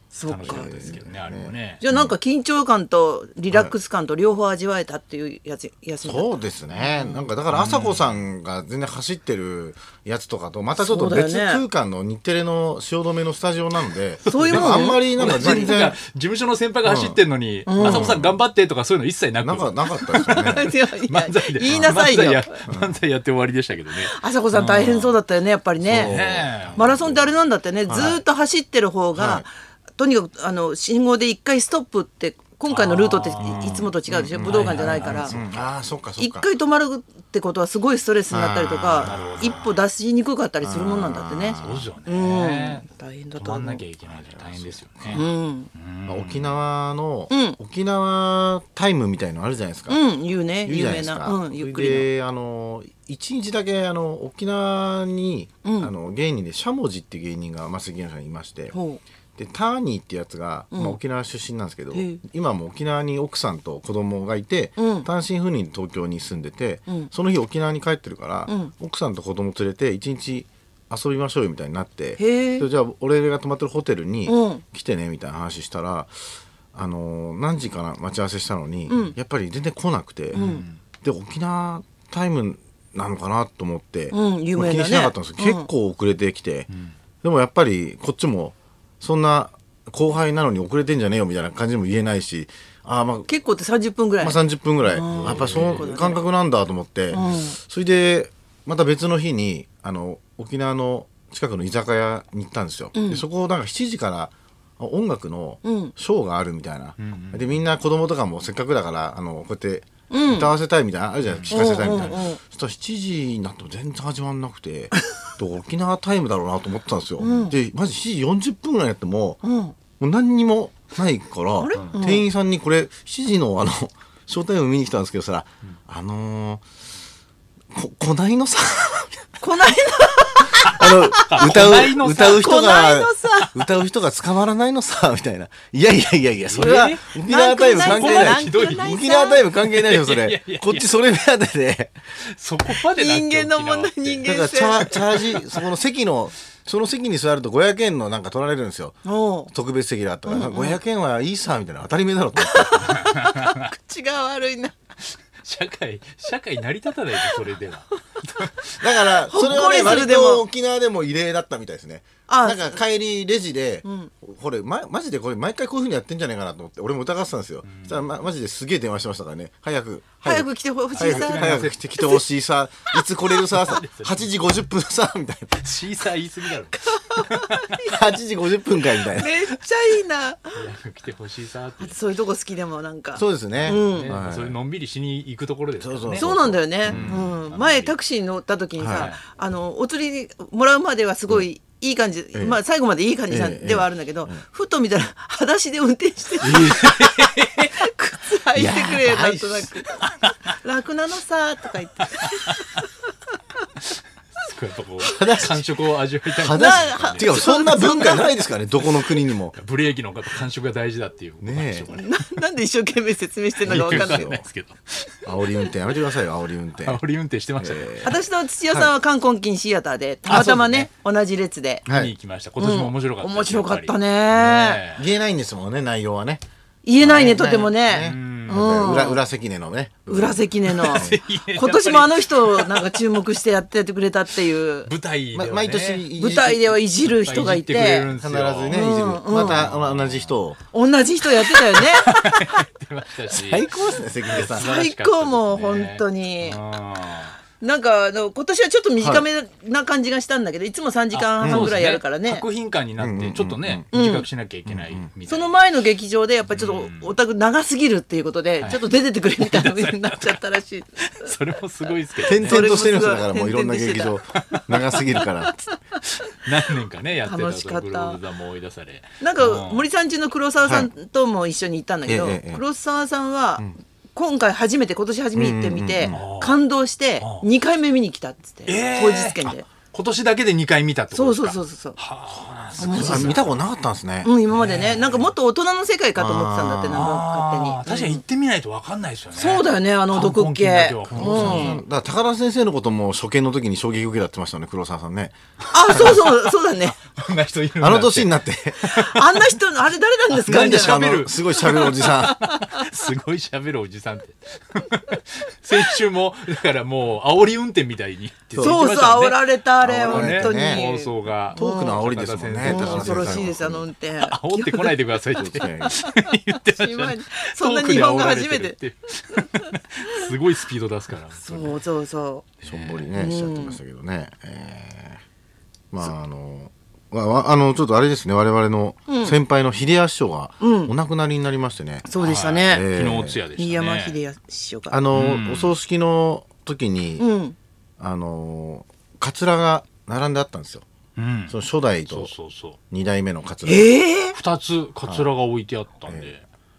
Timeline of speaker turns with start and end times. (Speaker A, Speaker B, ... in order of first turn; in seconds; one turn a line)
Speaker A: 0.1-1.0
Speaker B: 0.3-1.8
Speaker C: 0.3-2.1
Speaker A: 1.8-7.3
Speaker C: 6.0-16.0
Speaker B: 7.5-8.2
Speaker A: 10.8-11.6
Speaker B: 14.2-25.1
Speaker A: 14.3-15.8
Speaker C: 16.9-17.2
Speaker A: 17.7-18.1
Speaker C: 17.8-18.4
Speaker C: 19.4-20.7
Speaker A: 20.1-22.6
Speaker C: 21.7-22.0
Speaker C: 22.7-23.0
Speaker A: 24.0-26.2
Speaker C: 25.8-27.4
Speaker B: 26.0-26.9
Speaker A: 26.8-35.4
Speaker C: 27.9-28.2
Speaker C: 29.1-29.5
Speaker B: 32.7-33.7
Speaker C: 33.4-36.5
Speaker B: 34.4-35.6
Speaker A: 36.2-43.8
Speaker C: 38.3-39.7
Speaker B: 39.0-39.8
Speaker C: 40.6-41.9
Speaker B: 41.6-42.9
Speaker B: 43.4-46.6
Speaker C: 44.1-45.2
Speaker A: 45.1-45.7
Speaker C: 46.1-50.0
Speaker A: 47.3-47.6
Speaker A: 49.9-52.1
Speaker C: 50.7-58.8
Speaker A: 55.6-55.9
Speaker A: 58.7-59.0
Speaker C: 59.4-76.1
Speaker A: 60.7-61.0
Speaker A: 61.9-62.2
Speaker A: 64.8-65.1
Speaker A: 68.5-68.7
Speaker A: 72.2-72.7
Speaker A: 74.3-74.6
Speaker C: 76.7-86.7
Speaker A: 78.9-79.2
Speaker B: 80.3-80.8
Speaker A: 80.3-80.6
Speaker A: 84.1-85.7
Speaker B: 86.7-87.0
Speaker C: 87.2-93.3
Speaker A: 93.3-96.2
Speaker C: 94.2-119.4
Speaker B: 95.0-96.0
Speaker A: 97.1-97.6
Speaker A: 103.0-103.2
Speaker A: 105.6-105.9
Speaker B: 107.0-107.6
Speaker A: 110.1-110.5
Speaker B: 111.2-112.2
Speaker A: 111.5-112.4
Speaker A: 117.2-117.6
Speaker A: 119.4-119.8
Speaker C: 120.0-126.6
Speaker A: 121.6-122.3
Speaker C: 127.7-129.4
Speaker A: 129.4-131.7
Speaker C: 130.6-142.0
Speaker B: 130.8-132.5
Speaker A: 132.3-133.6
Speaker B: 136.4-137.0
Speaker A: 136.6-139.5
Speaker B: 137.7-139.0
Speaker B: 139.6-141.0
Speaker B: 142.2-144.3
Speaker A: 142.8-145.3
Speaker C: 144.2-149.0
Speaker B: 145.0-145.4
Speaker A: 149.1-149.5
Speaker C: 149.5-152.9
Speaker A: 150.3-150.8
Speaker A: 152.4-154.8
Speaker B: 152.8-153.6
Speaker B: 155.4-160.1
Speaker C: 158.8-175.6
Speaker A: 159.3-160.5
Speaker A: 162.3-162.8
Speaker A: 163.8-164.1
Speaker B: 167.6-168.1
Speaker A: 170.2-172.2
Speaker B: 170.9-171.8
Speaker B: 173.5-174.6
Speaker B: 175.6-177.9
Speaker A: 176.8-177.9
Speaker C: 177.8-179.3
Speaker A: 179.2-180.6
Speaker B: 180.5-182.0
Speaker A: 181.8-184.1
Speaker C: 183.2-184.6
Speaker B: 183.8-187.9
Speaker C: 185.8-187.4
Speaker A: 186.1-199.9
Speaker C: 188.8-189.1
Speaker B: 188.9-189.2
Speaker C: 192.3-192.6
Speaker C: 193.3-194.4
Speaker B: 196.4-197.8
Speaker C: 198.6-199.7
Speaker A: 200.6-202.8
Speaker B: 202.0-202.8
Speaker B: 204.4-207.7
Speaker C: 205.1-205.7
Speaker C: 206.4-209.6
Speaker A: 206.5-208.4
Speaker B: 208.8-212.2
Speaker C: 211.4-211.9
Speaker A: 211.9-214.4
Speaker B: 213.6-215.3
Speaker C: 213.7-214.4
Speaker C: 215.3-217.0
Speaker B: 216.8-218.1
Speaker C: 217.6-218.2
Speaker A: 218.0-221.9
Speaker B: 220.3-220.9
Speaker C: 221.9-222.1
Speaker B: 221.9-225.1
Speaker A: 222.6-224.8
Speaker C: 224.9-226.4
Speaker A: 226.8-229.2
Speaker C: 227.0-231.2
Speaker B: 228.0-229.0
Speaker A: 230.1-234.9
Speaker B: 230.7-233.0
Speaker B: 234.8-236.1
Speaker C: 235.3-236.8
Speaker A: 236.2-238.1
Speaker B: 237.0-240.4
Speaker C: 238.2-240.6
Speaker A: 238.7-239.6
Speaker A: 240.7-242.6
Speaker B: 241.4-243.7
Speaker C: 243.3-244.7
Speaker B: 244.3-247.4
Speaker A: 244.6-246.6
Speaker A: 247.6-252.5
Speaker C: 249.0-249.2
Speaker B: 251.1-255.5
Speaker C: 251.4-251.8
Speaker C: 253.0-253.8
Speaker A: 253.9-254.3
Speaker C: 254.7-255.1
Speaker A: 255.3-261.3
Speaker B: 256.5-257.2
Speaker B: 258.6-260.5
Speaker B: 261.0-262.7
Speaker C: 262.3-265.6
Speaker A: 262.4-264.2
Speaker B: 264.4-265.2
Speaker A: 265.2-265.8
Speaker B: 266.2-269.9
Speaker A: 267.2-268.2
Speaker A: 269.2-279.7
Speaker C: 270.6-270.9
Speaker C: 272.1-272.6
Speaker C: 275.3-276.2
Speaker B: 276.1-276.6
Speaker B: 277.2-277.5
Speaker B: 278.7-283.6
Speaker A: 281.1-282.0
Speaker C: 282.8-284.3
Speaker A: 282.8-283.4
Speaker A: 284.2-288.2
Speaker B: 284.5-285.3
Speaker C: 286.2-287.1
Speaker B: 286.9-291.8
Speaker A: 289.3-291.8
Speaker C: 291.1-295.4
Speaker B: 295.7-299.5
Speaker A: 295.7-297.0
Speaker C: 295.9-296.2
Speaker C: 297.8-298.9
Speaker A: 298.8-301.1
Speaker B: 300.3-309.4
Speaker C: 300.5-302.4
Speaker A: 301.7-302.9
Speaker C: 308.5-308.8
Speaker A: 308.6-312.0
Speaker C: 309.8-310.8
Speaker B: 310.0-313.6
Speaker C: 311.5-313.9
Speaker A: 312.6-314.9
Speaker B: 314.2-321.7
Speaker C: 315.4-315.9
Speaker A: 315.5-315.9
Speaker A: 316.6-318.8
Speaker A: 319.4-320.2
Speaker A: 321.4-322.5
Speaker B: 322.6-323.1
Speaker C: 322.6-325.2
Speaker A: 323.2-323.8
Speaker C: 325.9-332.1
Speaker A: 329.1-329.4
Speaker A: 330.6-330.9
Speaker A: 332.1-332.9
Speaker B: 332.2-334.2
Speaker C: 332.7-333.4
Speaker A: 333.6-335.0
Speaker C: 334.9-337.2
Speaker B: 335.1-335.8
Speaker A: 337.2-337.6
Speaker C: 338.0-340.9
Speaker B: 341.2-342.8
Speaker C: 341.5-342.3
Speaker C: 342.9-343.9
Speaker A: 343.6-344.4
Speaker B: 344.3-346.4